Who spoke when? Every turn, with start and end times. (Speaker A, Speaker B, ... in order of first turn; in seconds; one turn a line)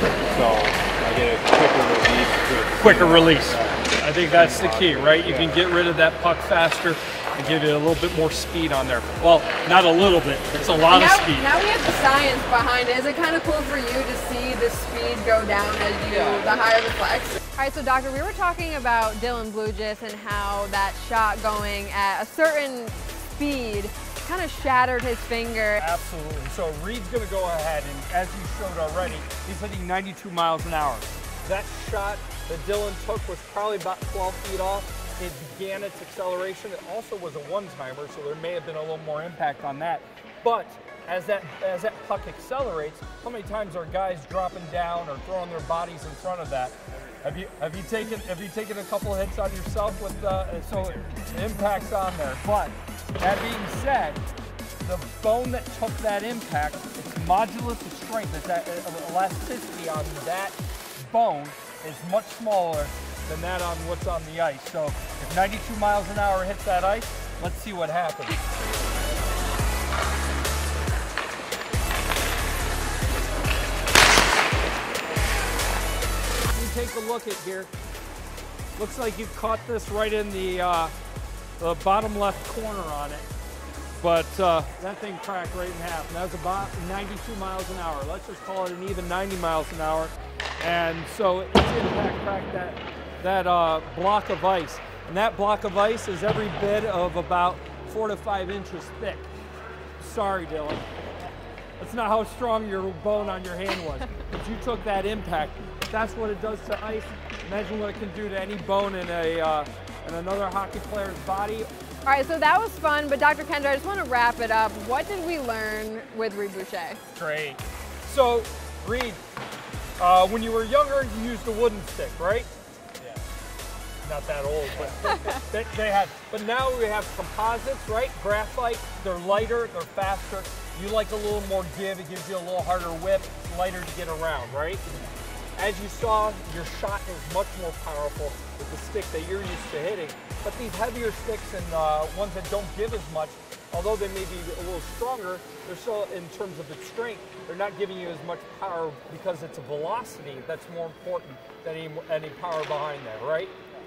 Speaker A: 0.2-5.6
Speaker B: 2.8-11.5
Speaker C: 10.9-25.8
Speaker A: 16.1-16.6
Speaker B: 25.8-54.2
Speaker B: 54.8-68.4
Speaker B: 76.5-77.7
Speaker B: 78.8-80.9
Speaker B: 81.6-83.2
Speaker B: 84.0-99.3
Speaker B: 100.0-100.9
Speaker B: 101.8-111.7
Speaker C: 112.1-117.0
Speaker B: 117.2-119.2
Speaker B: 120.0-122.5
Speaker B: 124.0-134.8
Speaker C: 125.1-125.4
Speaker B: 135.6-153.5